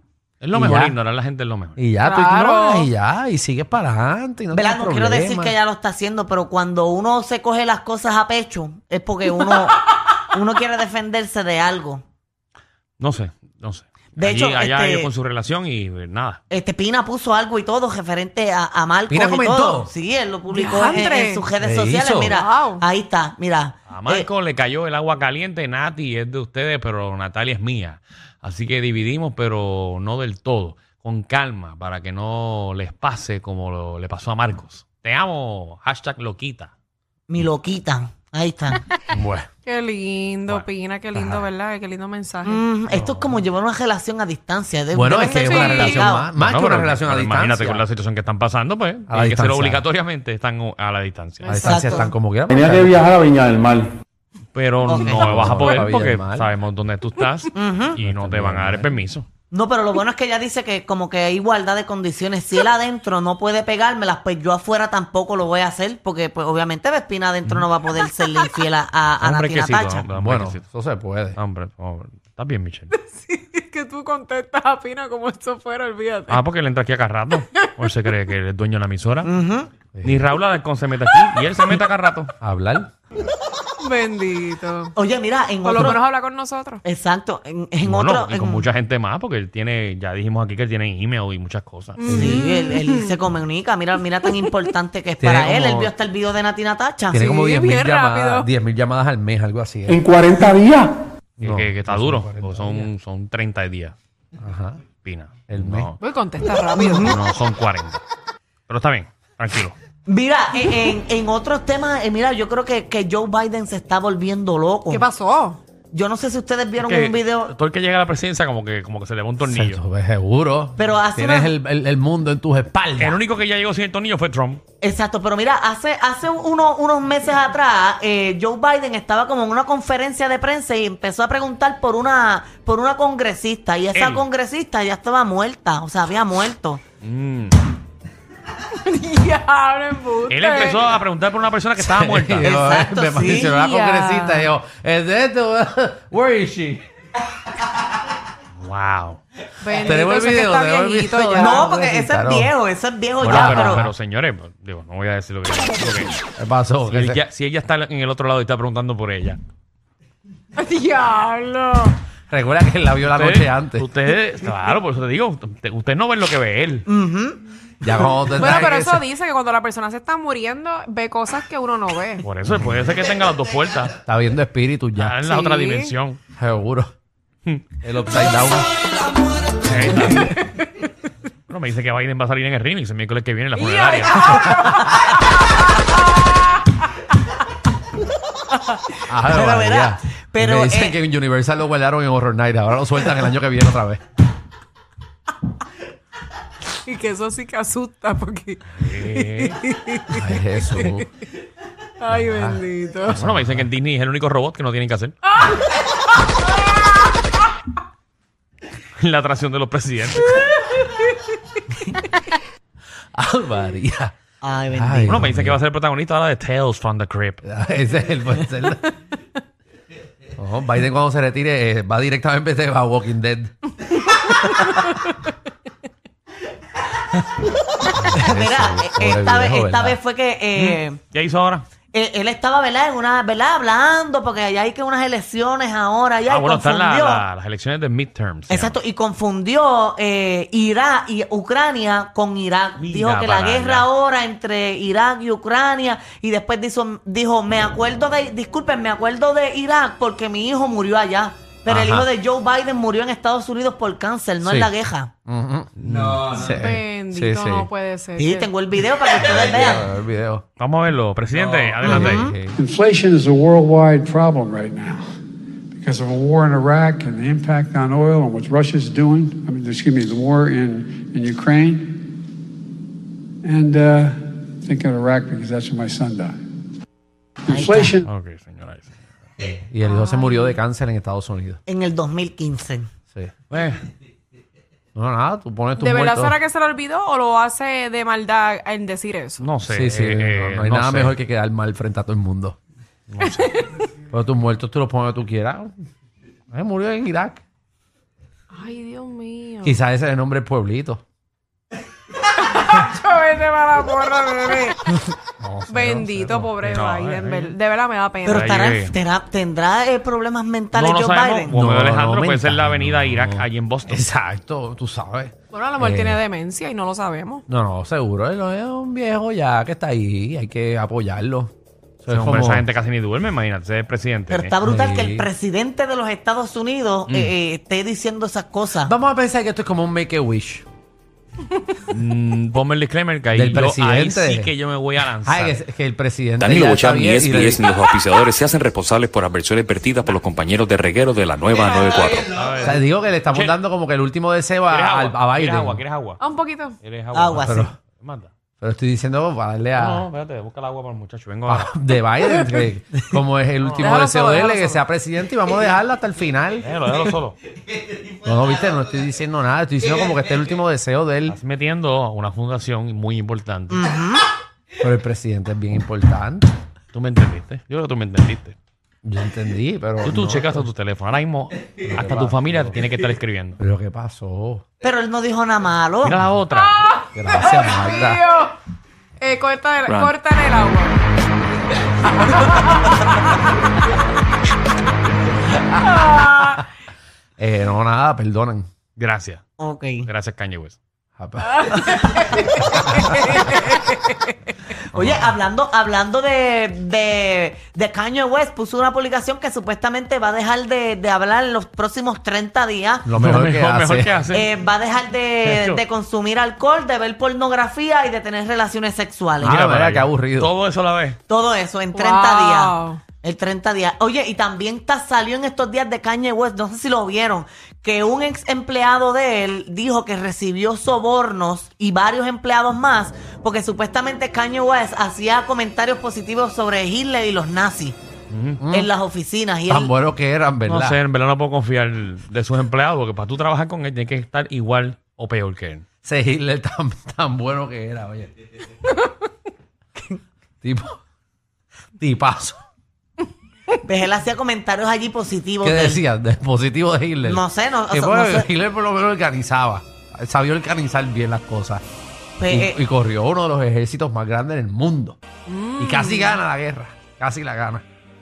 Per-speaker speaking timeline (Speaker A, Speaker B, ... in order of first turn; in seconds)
Speaker A: 0.4-1.9, 13.0-16.4, 23.9-36.7, 39.1-39.5, 40.5-41.4, 42.9-43.4, 46.4-51.6, 54.5-59.3, 69.2-70.6, 71.4-72.9, 76.3-79.3, 80.0-82.3, 87.8-92.0, 101.4-104.0, 105.0-106.0, 107.0-108.0, 108.7-109.8, 116.8-119.8, 123.0-124.6, 133.9-134.2, 137.0-137.6, 140.3-142.6, 148.6-149.2, 153.2-156.2, 156.8-159.4, 163.1-166.8, 172.2-174.0, 175.0-176.2, 179.7-180.4, 181.5-184.4, 198.8-199.6, 203.2-205.1, 209.0-210.4, 215.1-217.4, 230.6-231.7, 236.3-238.8, 242.8-243.9, 260.6-262.3, 278.0-278.9, 283.5-283.8, 289.4-291.1, 293.1-293.5, 305.4-307.5, 308.4-308.9, 310.7-314.1, 322.1-324.5, 331.9-335.6, 342.2-343.6, 344.7-346.2, 346.8-348.3, 349.8-351.7, 353.6-353.9, 356.6-357.4, 361.3-363.8, 366.9-368.6, 370.0-373.6, 376.0-376.8, 389.0-389.4, 390.1-390.8, 403.1-404.5, 405.4-405.8, 409.4-411.2, 428.3-428.6, 430.7-435.8
Speaker B: 0.5-1.0, 1.8-5.5, 19.1-19.9, 21.6-22.4, 44.9-47.8, 49.1-49.8, 51.5-53.2, 55.0-56.5, 58.0-59.0, 70.1-71.4, 82.4-82.9, 92.1-92.4, 95.2-95.9, 97.1-100.1, 101.4-102.9, 104.4-104.8, 105.5-105.9, 119.4-123.2, 141.8-146.8, 149.8-152.5, 153.2-153.9, 156.4-157.2, 162.3-163.9, 167.8-169.0, 174.1-175.2, 176.4-176.9, 177.8-178.7, 189.1-194.0, 200.1-201.1, 202.1-203.7, 213.2-214.1, 214.7-215.6, 217.4-218.9, 220.4-223.5, 227.9-230.0, 251.7-252.1, 254.4-254.7, 255.3-257.7, 259.3-260.4, 261.9-262.6, 279.4-281.6, 284.9-286.4, 289.7-292.6, 294.1-295.7, 296.5-297.4, 299.6-301.0, 311.5-316.2, 317.5-322.7, 324.6-325.3, 328.8-330.7, 333.3-334.5, 335.2-337.7, 342.5-345.8, 347.4-347.7, 348.6-350.1, 351.5-356.7, 358.1-361.4, 364.8-366.5, 369.0-370.7, 371.9-372.8, 373.6-374.6, 377.1-378.2, 387.4-388.7, 391.2-393.5, 403.1-404.2, 409.4-410.5, 428.6-428.9, 429.7-431.0, 436.0-438.3, 440.6-441.0, 442.0-442.6, 445.6-451.8, 452.5-455.2, 455.8-457.8
Speaker C: 2.0-2.9, 20.5-21.5, 22.3-22.8, 39.6-42.6, 45.2-46.1, 51.4-52.1, 72.9-76.4, 77.5-77.9, 83.8-84.9, 85.6-86.8, 92.0-93.2, 97.2-98.5, 106.0-107.2, 114.9-115.6, 138.8-140.9, 143.4-144.5, 149.6-151.7, 160.6-162.0, 168.3-172.3, 175.2-175.9, 180.0-180.4, 183.6-184.9, 196.8-200.9, 202.0-203.2, 205.4-205.9, 256.6-258.5, 279.8-280.6, 285.8-289.5, 293.2-293.7, 298.5-299.8, 302.4-305.1, 305.7-308.7, 315.5-317.4, 346.2-346.8, 353.8-354.8, 376.6-378.6, 379.2-381.0, 382.2-383.0, 385.8-386.6, 391.7-394.1, 411.9-413.0, 455.5-456.4
Speaker D: 4.5-12.0, 14.2-15.1, 16.5-24.3, 37.3-38.8, 42.4-46.3, 51.6-52.0, 54.9-55.3, 57.5-58.0, 59.5-70.1, 79.2-79.7, 85.0-86.0, 86.8-88.7, 92.1-97.3, 106.7-107.2, 110.1-115.1, 115.9-117.5, 120.8-121.5, 124.8-136.8, 142.4-143.6, 151.4-153.8, 166.9-167.4, 189.0-191.0, 214.4-215.2, 228.1-231.0, 231.9-237.2, 238.5-255.1, 258.2-259.9, 261.8-262.4, 277.5-278.0, 281.7-282.9, 308.2-311.7, 324.3-328.9, 347.1-347.7, 363.7-364.2, 374.8-376.2, 389.6-390.1, 394.9-403.1, 404.3-409.6, 411.3-428.0, 428.7-429.9, 443.8-446.0, 447.2-448.5, 452.4-452.8
Speaker E: 52.5-53.9, 100.1-100.9
Speaker F: 262.6-265.0, 265.8-271.9, 273.4-276.4, 277.5-278.1
Speaker G: 336.4-342.3